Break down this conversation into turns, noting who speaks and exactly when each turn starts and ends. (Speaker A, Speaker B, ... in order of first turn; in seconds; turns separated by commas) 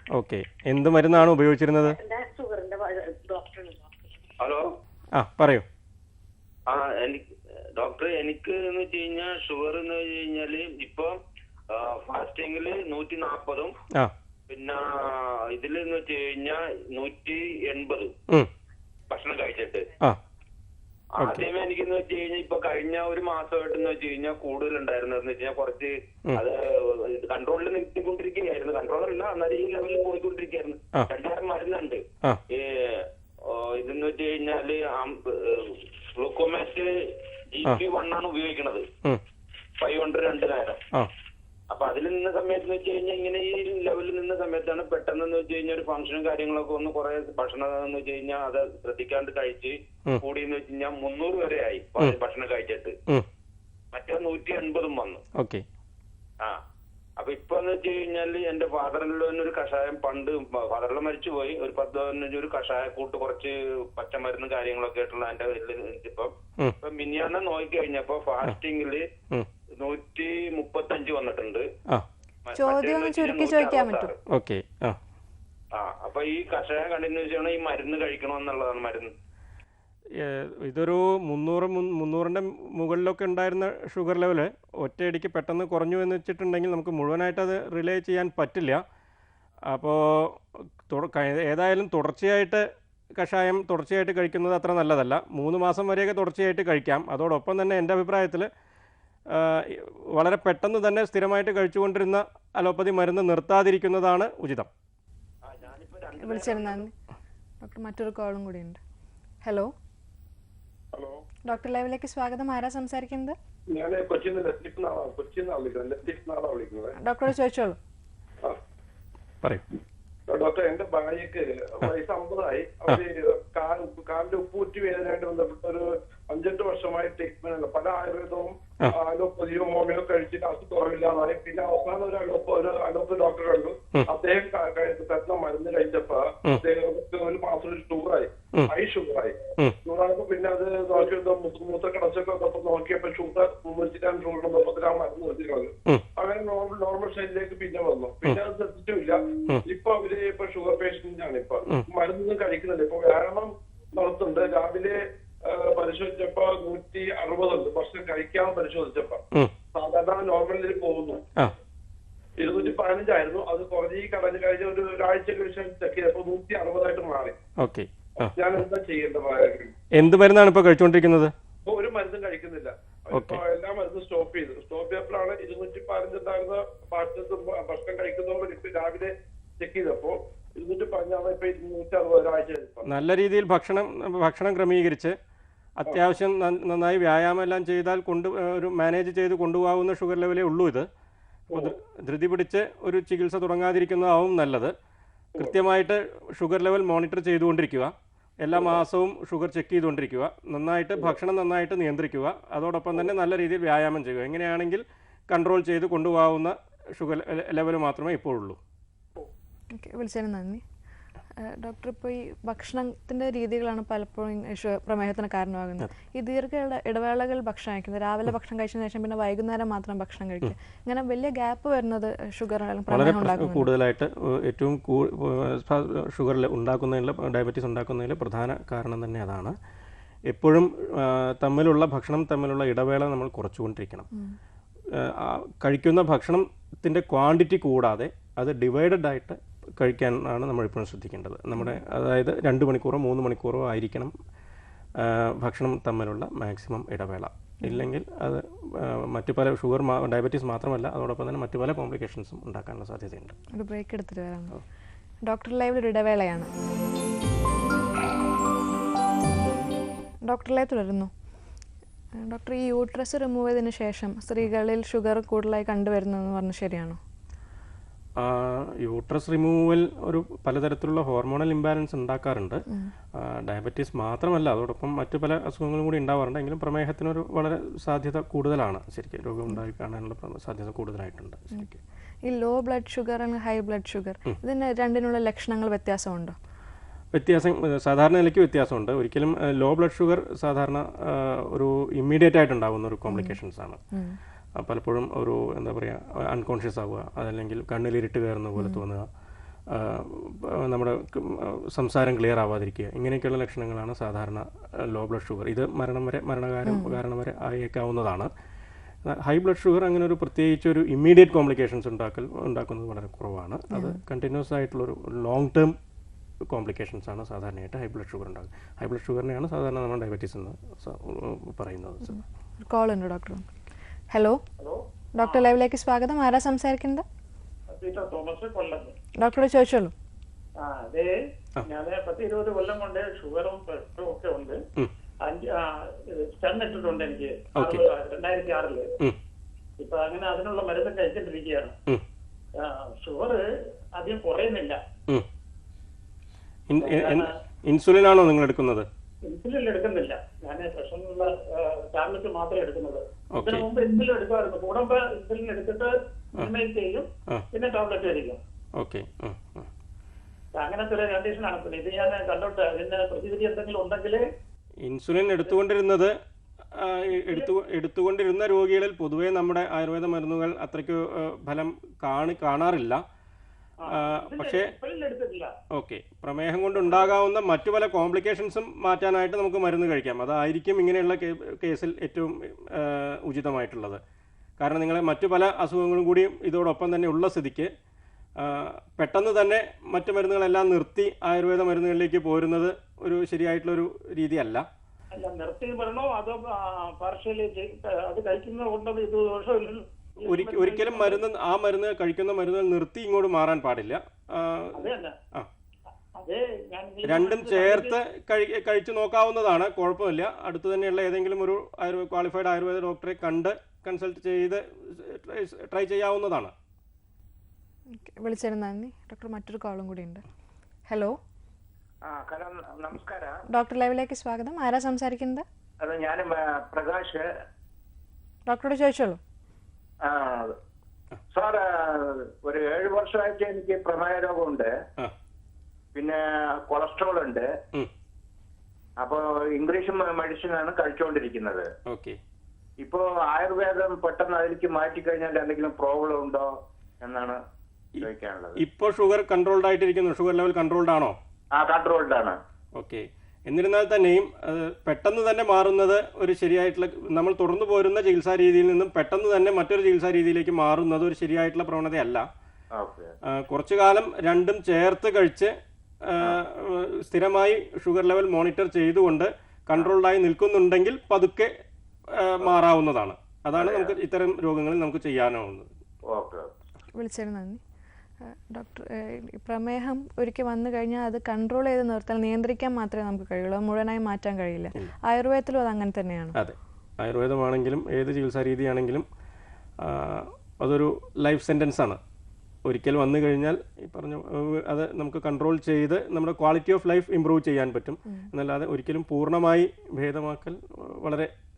Speaker A: 0.1-2.0, Speaker B: 1.8-3.8, Speaker A: 5.2-5.6, Speaker C: 6.7-7.2, Speaker C: 7.8-11.1, Speaker C: 11.7-13.7, Speaker C: 14.5-18.1, Speaker C: 19.1-19.9, Speaker A: 21.2-21.5, Speaker C: 21.2-32.0, Speaker C: 32.5-36.9, Speaker C: 37.5-38.9, Speaker C: 39.8-40.8, Speaker C: 41.7-52.9, Speaker C: 53.9-55.2, Speaker A: 55.4-55.6, Speaker C: 57.2-69.0, Speaker C: 69.8-71.6, Speaker C: 72.5-74.1, Speaker D: 72.5-74.1, Speaker A: 74.3-75.0, Speaker C: 75.8-79.1, Speaker A: 80.2-88.8, Speaker A: 89.7-92.6, Speaker A: 93.2-98.5, Speaker A: 99.3-104.7, Speaker C: 105.5-106.8, Speaker D: 106.2-106.9, Speaker D: 107.6-108.8, Speaker D: 109.4-109.7, Speaker E: 110.9-111.2, Speaker D: 111.5-113.3, Speaker E: 113.7-116.9, Speaker D: 117.0-117.8, Speaker E: 120.3-159.2, Speaker E: 159.7-161.2, Speaker E: 162.4-167.3, Speaker A: 167.6-168.3, Speaker E: 168.2-169.7, Speaker A: 169.9-171.3, Speaker E: 171.7-182.9, Speaker A: 173.1-173.4, Speaker A: 182.8-185.2, Speaker A: 185.8-190.9, Speaker A: 191.5-194.7, Speaker A: 195.4-208.6, Speaker E: 198.5-198.8, Speaker D: 209.7-210.6, Speaker D: 211.4-223.7, Speaker A: 222.9-229.6, Speaker A: 230.3-234.1, Speaker A: 235.0-244.1, Speaker A: 245.0-253.4, Speaker D: 253.5-254.5, Speaker D: 255.3-256.5, Speaker D: 260.3-261.1, Speaker D: 262.2-267.0, Speaker A: 268.2-272.6, Speaker A: 273.2-281.8, Speaker D: 282.3-286.3, Speaker A: 287.1-293.8, Speaker D: 293.1-293.4, Speaker A: 294.6-299.1, Speaker D: 298.6-298.8, Speaker A: 299.7-308.3, Speaker D: 306.6-307.0, Speaker A: 309.1-315.7, Speaker A: 316.5-322.2, Speaker D: 322.6-323.4, Speaker D: 324.1-324.4, Speaker F: 324.6-325.5, Speaker D: 325.2-327.0, Speaker F: 327.8-328.9, Speaker D: 329.2-329.9, Speaker F: 330.6-331.1, Speaker F: 331.6-334.6, Speaker F: 335.2-338.9, Speaker A: 337.5-337.9, Speaker F: 339.8-341.8, Speaker F: 342.6-343.4, Speaker F: 343.9-344.8, Speaker A: 346.7-348.9, Speaker F: 346.8-347.3, Speaker F: 349.2-358.4, Speaker A: 353.3-353.7, Speaker A: 356.4-356.6, Speaker A: 358.8-359.7, Speaker F: 360.6-364.2, Speaker A: 364.8-366.1, Speaker A: 366.7-373.0, Speaker A: 373.9-374.8, Speaker F: 373.9-375.5, Speaker A: 375.7-384.0, Speaker A: 384.6-387.7, Speaker A: 388.4-394.6, Speaker F: 395.1-401.2, Speaker A: 400.2-405.5, Speaker F: 404.7-405.1, Speaker F: 406.1-408.0, Speaker A: 407.0-416.5, Speaker D: 417.9-420.2, Speaker D: 420.9-421.2, Speaker G: 422.1-423.4, Speaker D: 423.5-425.4, Speaker G: 425.8-427.2, Speaker D: 428.5-429.2, Speaker G: 430.1-430.5, Speaker G: 431.3-434.7, Speaker G: 435.9-437.5, Speaker G: 439.0-441.7, Speaker A: 441.9-442.2, Speaker G: 442.8-446.5, Speaker G: 447.0-447.4, Speaker A: 447.9-451.1, Speaker G: 448.0-448.6, Speaker G: 451.5-452.3, Speaker A: 452.7-462.2, Speaker G: 462.8-463.1, Speaker A: 463.3-465.5, Speaker A: 466.0-471.5, Speaker A: 472.1-475.7, Speaker C: 473.6-473.9, Speaker C: 476.1-476.5, Speaker D: 477.0-477.6, Speaker D: 478.2-486.4, Speaker A: 486.4-489.1, Speaker A: 489.8-492.0, Speaker A: 492.6-501.3